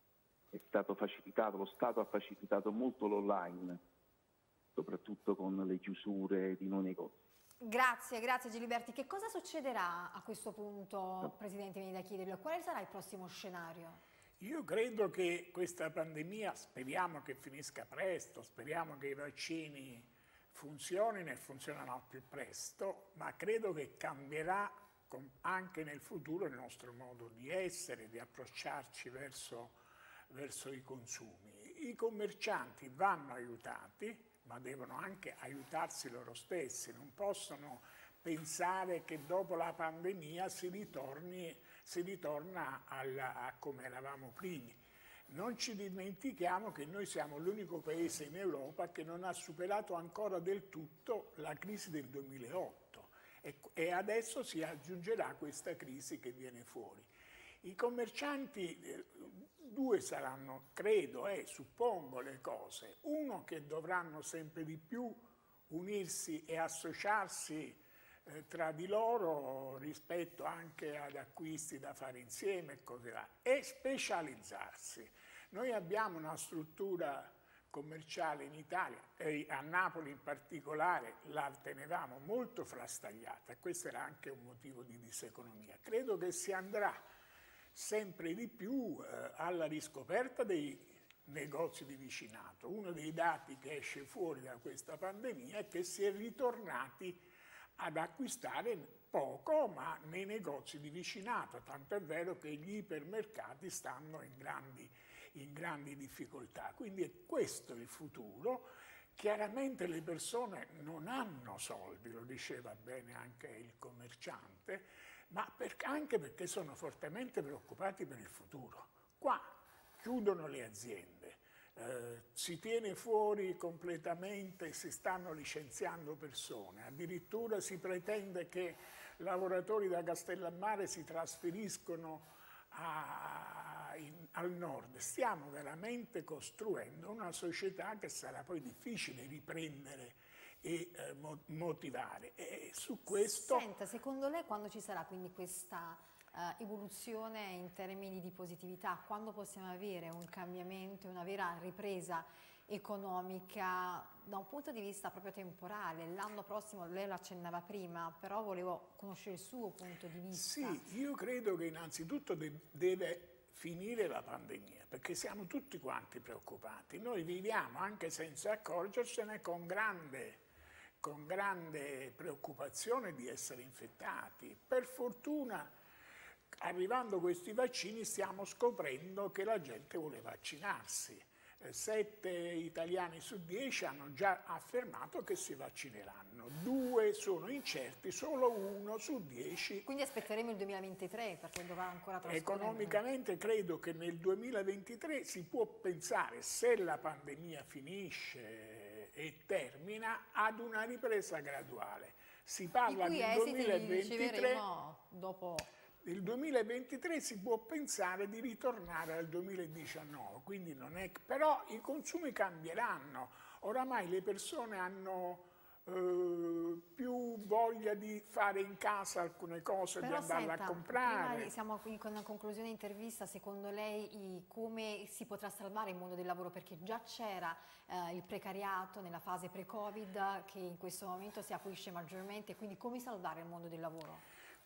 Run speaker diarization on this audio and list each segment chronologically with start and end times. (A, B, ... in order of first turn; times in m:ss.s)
0:00.5-0:03.8 A
0:04.8-0:07.1 A
0:07.6-0:14.0 B
0:14.4-0:29.8 C
0:30.3-0:57.1 C
0:57.6-1:27.0 C
1:27.7-1:37.2 C
1:37.8-2:23.7 C
2:23.1-2:40.9 B
2:40.3-2:50.4 C
2:51.0-2:55.7 C
2:56.6-3:09.8 C
3:09.8-3:13.0 B
3:12.2-3:24.6 C
3:22.8-3:25.7 B
3:26.0-3:41.5 C
3:40.0-3:54.2 B